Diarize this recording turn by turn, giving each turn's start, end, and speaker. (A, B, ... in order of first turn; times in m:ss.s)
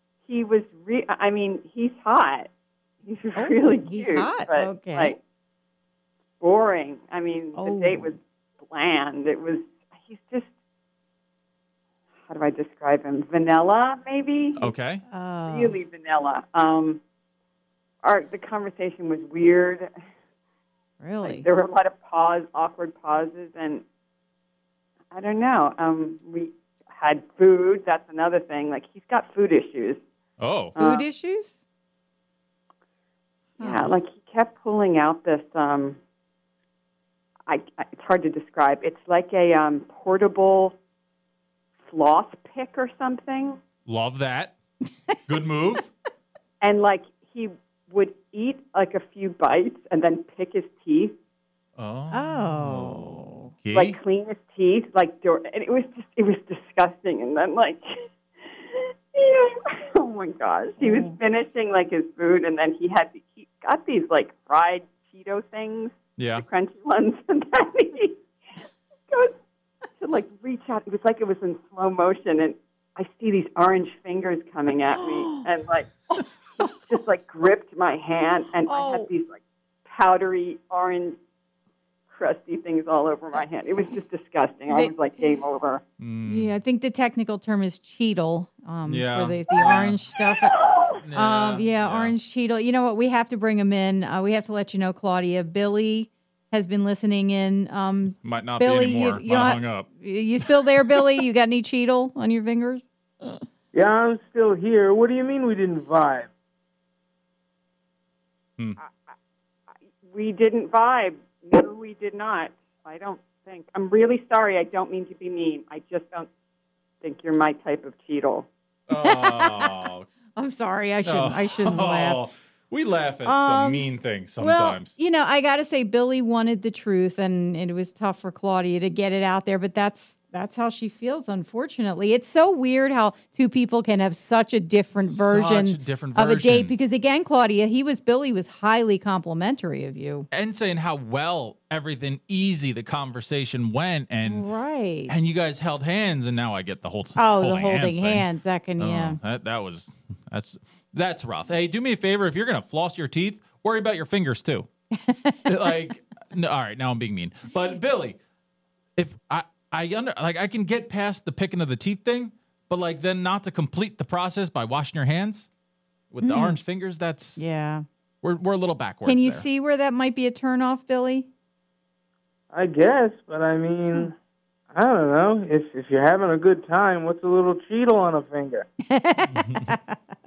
0:00.2-0:02.5 A
0:03.0-0:05.2 A
0:03.4-0:05.1 B
0:06.4-0:08.2 A
0:07.6-0:08.1 B
0:08.7-0:10.5 A
0:12.3-0:14.7 A
0:14.6-0:15.0 C
0:15.1-0:15.8 B
0:15.4-0:17.0 A
0:18.0-0:19.9 A
0:21.0-0:21.5 B
0:21.2-0:23.8 A
0:25.1-0:30.0 A
0:30.4-0:30.8 C
0:30.7-0:31.0 A
0:30.8-0:31.6 B
0:33.6-0:34.0 B
0:33.6-0:36.0 A
0:37.5-0:40.8 A
0:41.8-0:43.6 A
0:43.8-0:44.5 C
0:45.3-0:45.9 C
0:46.6-0:51.1 A
0:51.8-0:54.0 C
0:52.1-0:53.5 B
0:53.7-0:57.9 A
0:58.5-1:08.2 A
1:00.8-1:01.2 B
1:06.2-1:06.4 C
1:10.0-1:15.9 A
1:16.7-1:21.2 A
1:18.7-1:19.1 B
1:22.1-1:25.8 A
1:26.0-1:26.5 C
1:26.2-1:30.6 B
1:28.8-1:30.0 C
1:30.5-1:31.0 A
1:31.0-1:32.2 C
1:31.1-1:43.3 B
1:38.2-1:39.9 C
1:43.7-1:46.3 D
1:50.0-1:56.3 A
1:57.0-1:58.5 A
1:58.9-2:00.1 C
1:59.0-1:59.8 B
2:00.4-2:02.2 B
2:01.0-2:05.0 C
2:03.2-2:03.8 B
2:04.4-2:20.3 B
2:15.0-2:16.8 C
2:20.3-2:24.5 C
2:24.2-2:25.1 B
2:25.1-2:28.3 C
2:27.2-2:29.2 B
2:28.8-2:34.7 C
2:34.9-2:35.7 B
2:35.4-2:38.2 C
2:39.0-2:45.5 C
2:46.1-2:47.4 C
2:46.2-2:46.6 B
2:47.4-2:47.8 B
2:48.2-2:49.4 C
2:49.0-2:51.3 B
2:52.5-2:54.1 D
2:54.7-2:58.7 D
2:58.9-3:00.0 B
2:59.2-2:59.7 C